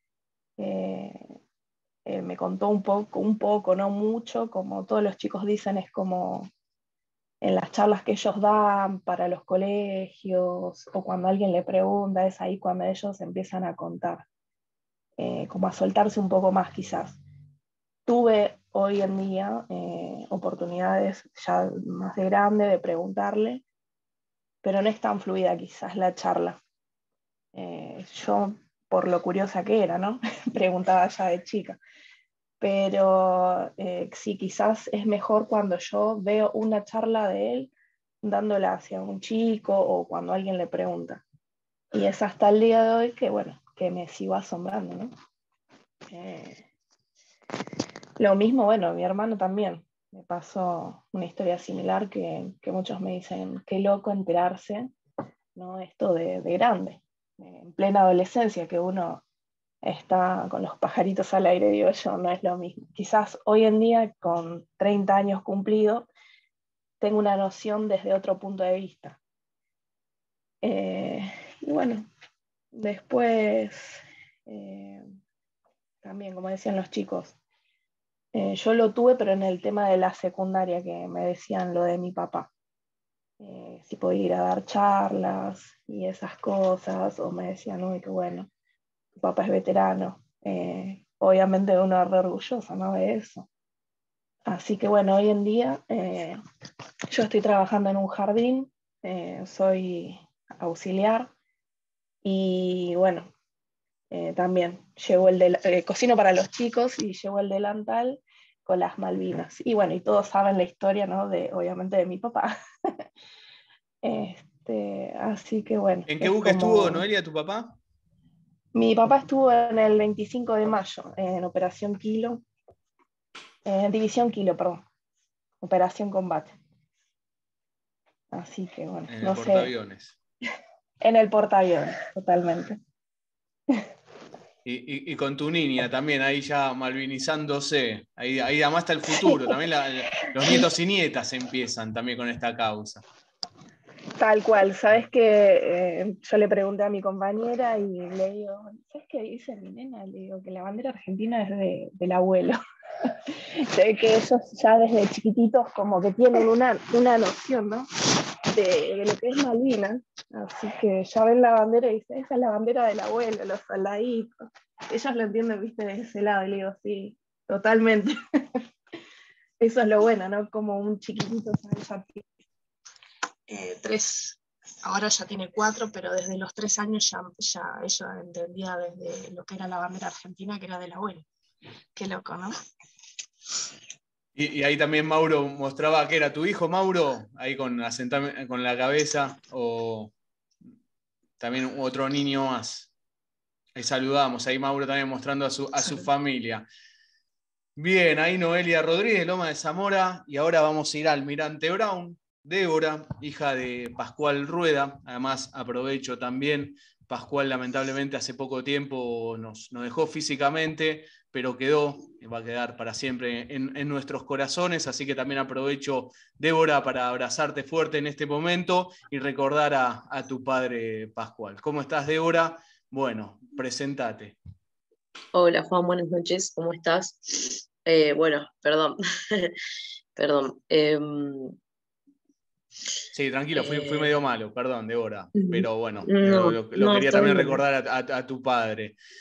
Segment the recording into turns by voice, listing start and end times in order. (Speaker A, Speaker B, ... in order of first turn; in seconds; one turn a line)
Speaker A: 0.6-1.4
Speaker A: 2.1-6.5
Speaker A: 7.4-14.3
Speaker A: 15.2-17.2
Speaker A: 18.1-23.6
Speaker A: 24.6-26.6
Speaker A: 27.5-31.8
Speaker A: 32.6-41.2
Speaker A: 41.9-45.1
Speaker A: 46.1-46.6
Speaker A: 48.2-54.9
Speaker A: 55.6-59.2
Speaker A: 59.8-66.1
Speaker A: 67.0-69.2
Speaker A: 70.6-72.1
Speaker A: 72.7-75.0
Speaker A: 76.0-77.4
Speaker A: 78.3-82.5
Speaker A: 83.4-88.5
Speaker A: 89.2-93.5
Speaker A: 94.5-96.4
Speaker A: 97.1-101.3
Speaker A: 102.2-103.3
Speaker A: 104.1-112.5
Speaker A: 114.0-117.0
Speaker B: 116.1-117.8
Speaker A: 118.7-122.4
Speaker A: 123.7-124.8
Speaker A: 125.6-126.5
Speaker A: 128.3-129.7
Speaker B: 129.1-130.2
Speaker A: 131.0-132.8
Speaker B: 134.6-143.0
Speaker A: 139.2-139.5
Speaker A: 144.2-152.6
Speaker A: 153.7-157.9
Speaker A: 158.5-168.2
Speaker A: 169.6-172.2
Speaker A: 173.5-181.3
Speaker A: 181.9-182.5
Speaker B: 184.4-190.1
Speaker B: 191.4-192.9
Speaker B: 193.7-196.7
Speaker B: 197.8-224.4
Speaker C: 225.3-229.5
Speaker C: 230.2-231.6
Speaker B: 233.1-238.9
Speaker C: 233.5-234.2
Speaker C: 235.3-237.6